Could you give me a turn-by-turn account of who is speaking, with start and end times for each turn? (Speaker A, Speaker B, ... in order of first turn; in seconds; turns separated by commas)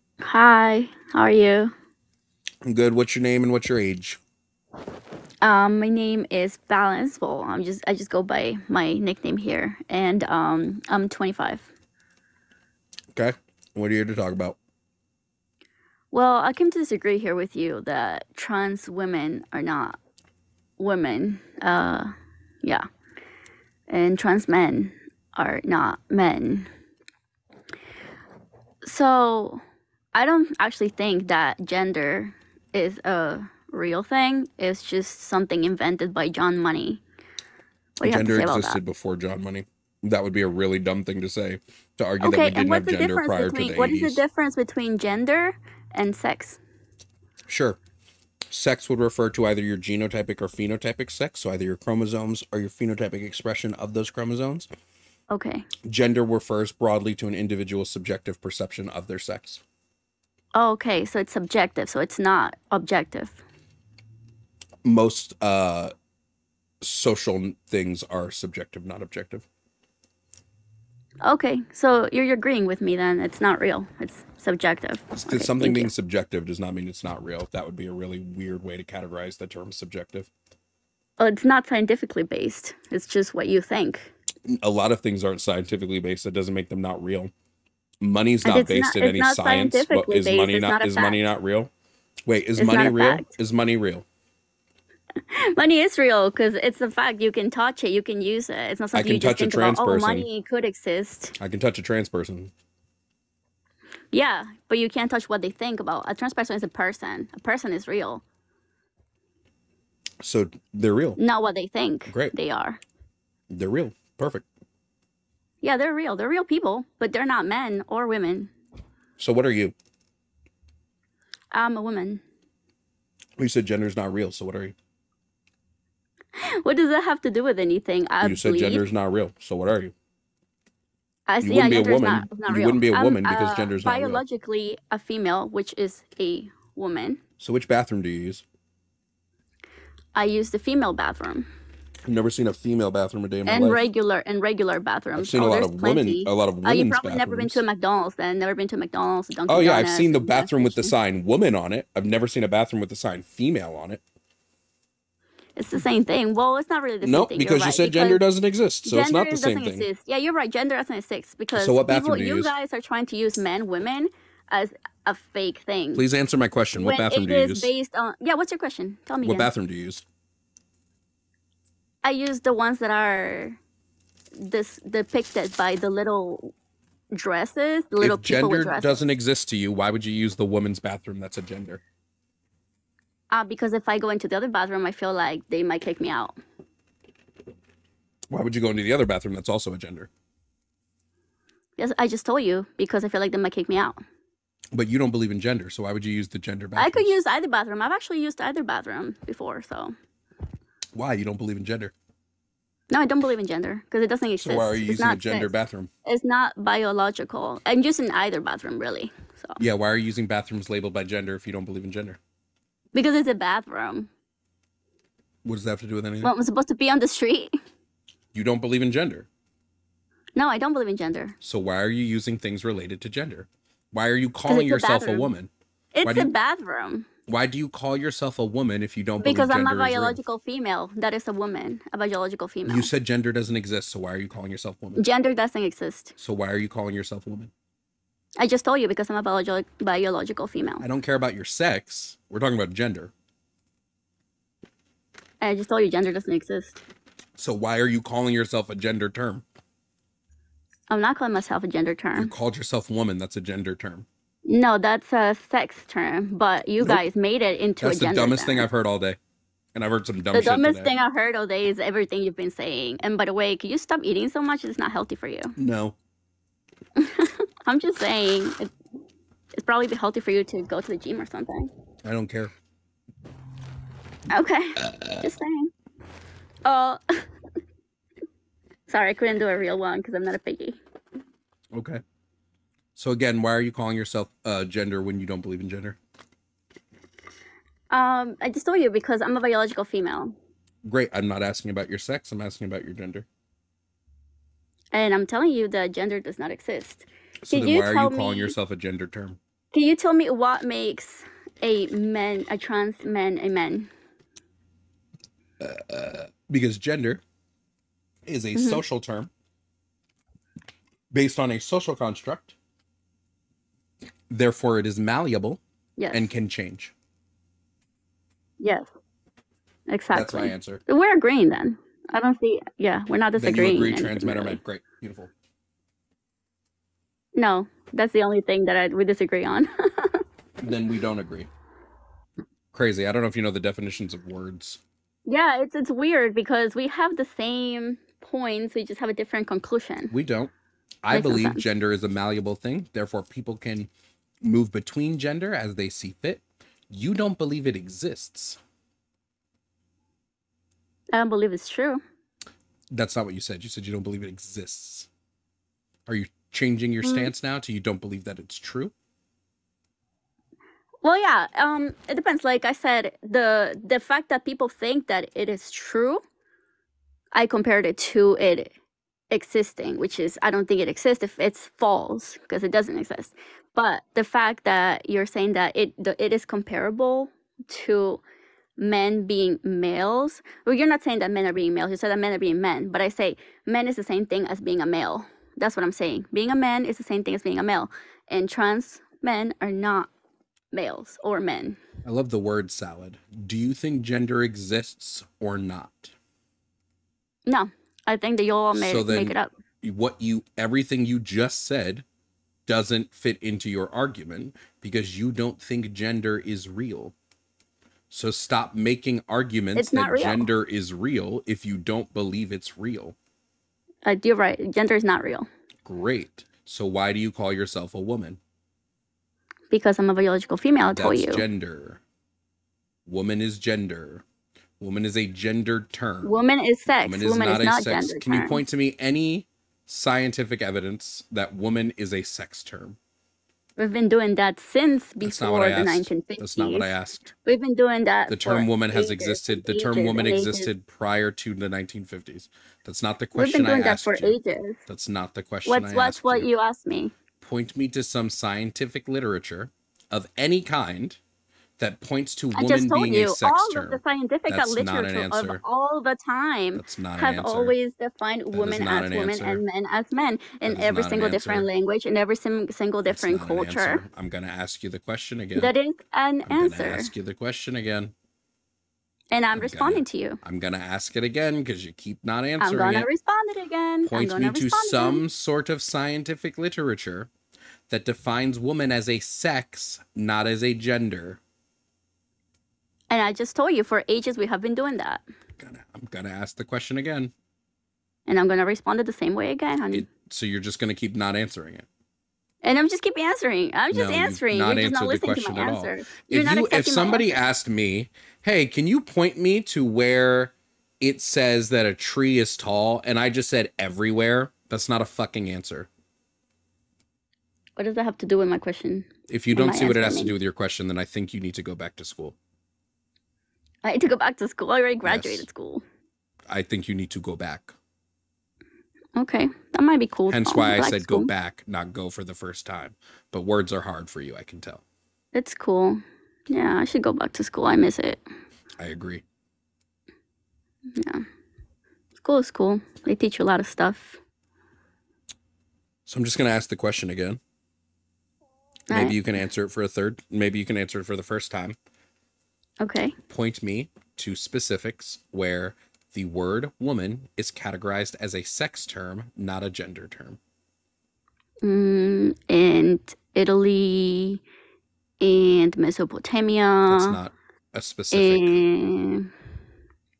Speaker A: 0.2-1.7, Speaker B: 2.6-4.2, Speaker A: 5.4-11.7, Speaker B: 13.1-14.6, Speaker A: 16.1-20.0, Speaker A: 20.8-22.1, Speaker A: 23.9-26.7, Speaker A: 28.8-29.6, Speaker A: 30.1-37.0, Speaker A: 38.0-38.8, Speaker B: 38.0-44.2, Speaker A: 42.2-46.6, Speaker B: 47.5-47.8, Speaker B: 48.5-54.7, Speaker A: 55.3-55.7, Speaker B: 55.8-59.6, Speaker A: 60.5-63.4, Speaker B: 64.8-65.9, Speaker B: 66.8-69.5, Speaker A: 71.2-75.9, Speaker B: 75.1-80.3, Speaker A: 81.2-84.1, Speaker B: 84.5-87.3, Speaker B: 88.0-91.7, Speaker A: 88.4-91.2, Speaker B: 92.2-94.0, Speaker A: 92.5-93.3, Speaker A: 95.3-101.3, Speaker B: 98.9-100.3, Speaker B: 101.4-102.5, Speaker A: 104.1-108.2, Speaker B: 110.2-111.2, Speaker A: 111.2-112.8, Speaker B: 112.1-112.3, Speaker B: 113.5-114.5, Speaker A: 115.6-118.5, Speaker B: 119.2-119.7, Speaker A: 121.5-122.2, Speaker B: 123.4-124.7, Speaker A: 126.4-128.8, Speaker B: 128.2-129.9, Speaker A: 131.3-137.2, Speaker B: 131.4-134.2, Speaker B: 137.4-138.4, Speaker A: 140.1-141.5, Speaker B: 142.0-143.8, Speaker A: 143.5-150.9, Speaker B: 145.2-147.6, Speaker B: 149.5-154.0, Speaker A: 155.6-158.2, Speaker B: 157.0-159.9, Speaker A: 158.8-166.0, Speaker B: 161.5-162.5, Speaker B: 165.9-167.7, Speaker A: 166.8-169.5, Speaker B: 169.2-170.0, Speaker A: 172.0-173.6, Speaker A: 174.4-176.5, Speaker A: 177.1-179.0, Speaker B: 178.0-181.8, Speaker A: 183.3-186.4, Speaker B: 188.3-190.1, Speaker A: 191.8-194.0, Speaker B: 194.7-197.2, Speaker A: 196.8-199.9, Speaker B: 200.9-201.9, Speaker A: 202.9-209.6, Speaker B: 204.4-205.9, Speaker B: 209.6-212.2, Speaker A: 212.9-214.1, Speaker B: 215.4-216.3, Speaker A: 216.2-217.5, Speaker B: 218.3-219.3, Speaker A: 220.3-221.3, Speaker B: 221.4-225.5, Speaker A: 224.5-225.3, Speaker A: 225.9-227.1, Speaker B: 226.0-226.3, Speaker B: 227.3-230.2, Speaker A: 229.2-232.9, Speaker B: 232.7-235.0, Speaker A: 234.9-236.1, Speaker B: 236.2-237.5, Speaker A: 238.4-240.8, Speaker B: 240.8-243.1, Speaker A: 245.4-246.8, Speaker B: 247.3-249.4, Speaker A: 250.9-252.3, Speaker B: 252.2-254.1, Speaker A: 254.4-258.7, Speaker B: 257.8-259.2, Speaker B: 259.7-260.9, Speaker A: 260.3-265.5, Speaker B: 265.6-265.9, Speaker A: 267.0-268.7, Speaker A: 269.5-271.7, Speaker B: 272.0-272.5, Speaker A: 274.3-275.7, Speaker B: 274.8-275.3, Speaker A: 276.6-277.2, Speaker A: 278.9-280.8, Speaker B: 281.7-282.0, Speaker B: 282.9-286.0, Speaker A: 287.9-290.3, Speaker B: 290.8-293.2, Speaker A: 294.9-298.5, Speaker B: 297.4-299.4, Speaker A: 299.7-303.9, Speaker B: 305.6-307.2, Speaker B: 308.2-309.3, Speaker A: 308.5-308.8, Speaker B: 311.1-312.5, Speaker B: 314.3-315.6, Speaker A: 316.0-316.3, Speaker B: 316.1-316.9, Speaker A: 318.6-318.9, Speaker A: 319.9-324.6, Speaker B: 320.1-320.8, Speaker B: 323.4-325.3, Speaker A: 327.3-330.2, Speaker B: 330.6-331.5, Speaker B: 332.7-334.8, Speaker A: 335.3-340.1, Speaker B: 340.1-340.5, Speaker B: 341.0-343.9, Speaker A: 341.1-341.6, Speaker B: 344.4-348.6, Speaker A: 351.1-352.0, Speaker B: 352.9-355.1, Speaker B: 356.1-358.9, Speaker A: 357.0-357.3, Speaker A: 361.0-366.2, Speaker A: 367.3-368.7, Speaker A: 369.3-378.2, Speaker A: 378.8-390.1, Speaker A: 390.7-391.8, Speaker B: 392.0-396.1, Speaker A: 397.5-399.5, Speaker B: 398.7-402.0, Speaker B: 402.6-407.1, Speaker B: 408.1-413.1, Speaker A: 409.7-410.5, Speaker A: 414.0-415.5, Speaker B: 415.8-418.4, Speaker A: 419.7-421.4, Speaker B: 420.9-422.0, Speaker B: 423.1-424.2, Speaker B: 424.8-426.3, Speaker A: 426.2-428.6, Speaker B: 427.0-433.0, Speaker A: 433.8-436.9, Speaker B: 435.2-437.3, Speaker A: 437.4-440.7, Speaker B: 438.3-444.3, Speaker A: 443.3-444.8, Speaker B: 444.9-446.5, Speaker A: 445.6-447.1, Speaker B: 447.4-451.2, Speaker B: 451.8-455.6, Speaker A: 452.5-464.0, Speaker B: 456.7-457.7, Speaker B: 458.5-459.6, Speaker B: 460.6-461.7, Speaker B: 463.1-465.7, Speaker A: 465.6-467.1, Speaker B: 466.4-468.1, Speaker A: 469.3-470.4, Speaker B: 469.5-473.1, Speaker A: 472.6-475.2, Speaker B: 474.1-477.3, Speaker B: 477.9-481.4, Speaker A: 483.1-485.2, Speaker B: 485.6-487.3, Speaker A: 488.3-490.1, Speaker B: 489.9-491.9, Speaker A: 492.6-497.4, Speaker B: 493.9-505.9, Speaker A: 507.8-510.3, Speaker B: 509.3-512.4, Speaker A: 513.8-515.8, Speaker B: 515.0-515.5, Speaker B: 516.5-517.7, Speaker A: 519.1-521.3, Speaker B: 520.3-524.8, Speaker A: 525.3-528.2, Speaker B: 528.8-529.2, Speaker A: 531.0-531.2, Speaker A: 532.2-534.2, Speaker B: 536.0-537.4, Speaker A: 538.9-539.2, Speaker B: 538.9-541.8, Speaker A: 542.8-543.1, Speaker B: 543.3-550.4, Speaker A: 551.6-554.4, Speaker A: 555.2-557.2, Speaker B: 556.9-558.6, Speaker A: 558.1-559.3